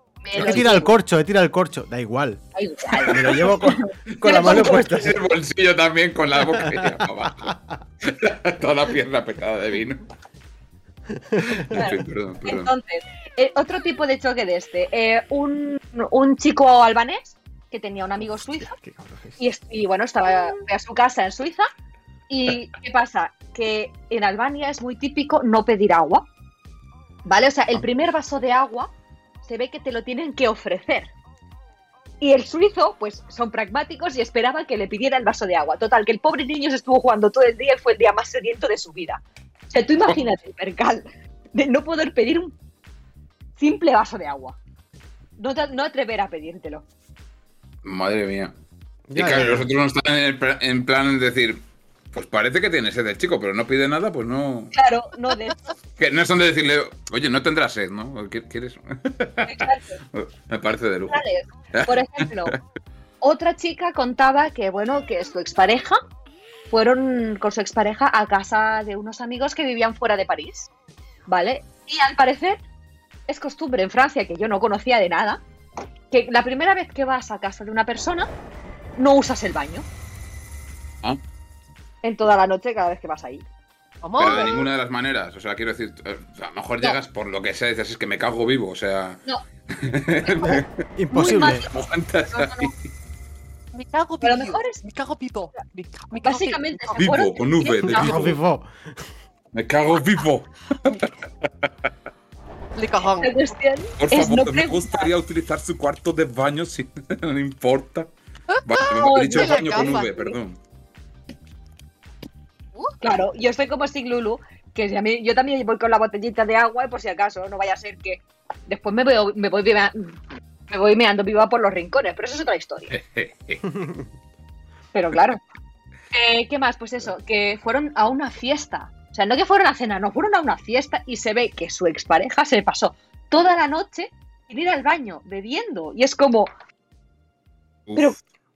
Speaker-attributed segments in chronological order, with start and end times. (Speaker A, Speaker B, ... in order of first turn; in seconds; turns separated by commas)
Speaker A: 0.2-0.9, Speaker B: 0.3-2.4, Speaker A: 2.5-4.9, Speaker B: 3.0-5.2, Speaker C: 4.2-10.0, Speaker B: 6.5-7.5, Speaker C: 11.5-12.7, Speaker A: 11.7-18.7, Speaker B: 18.4-19.4, Speaker A: 19.4-21.7, Speaker A: 22.3-26.3, Speaker A: 27.2-28.9, Speaker A: 29.4-31.1, Speaker A: 32.2-42.5, Speaker A: 43.6-44.6, Speaker A: 45.4-46.8, Speaker C: 47.8-48.5, Speaker B: 49.1-49.7, Speaker C: 49.1-51.6, Speaker C: 52.1-54.7, Speaker A: 54.7-55.6, Speaker C: 56.0-61.2, Speaker A: 59.4-60.0, Speaker A: 61.1-62.5, Speaker C: 61.7-62.6, Speaker A: 63.2-66.0, Speaker A: 66.7-70.7, Speaker A: 71.3-72.6, Speaker A: 73.3-75.4, Speaker A: 76.1-78.3, Speaker A: 79.0-79.9, Speaker A: 82.0-83.4, Speaker D: 84.0-84.7, Speaker C: 84.2-90.8, Speaker A: 84.2-84.5, Speaker A: 90.2-90.5, Speaker B: 91.0-91.6, Speaker A: 91.1-91.7, Speaker C: 91.6-92.8, Speaker A: 92.3-92.7, Speaker D: 93.7-97.0, Speaker A: 94.2-94.8, Speaker A: 96.2-98.1, Speaker C: 97.0-98.4, Speaker B: 97.9-98.7, Speaker C: 99.5-101.7, Speaker D: 102.8-103.4, Speaker A: 103.2-105.1, Speaker C: 104.0-108.1, Speaker D: 108.5-110.1, Speaker C: 108.6-110.6, Speaker A: 108.9-110.4, Speaker A: 113.0-120.2, Speaker A: 120.7-122.9, Speaker C: 122.9-123.6, Speaker B: 123.7-124.0, Speaker A: 124.9-125.4, Speaker A: 126.1-136.5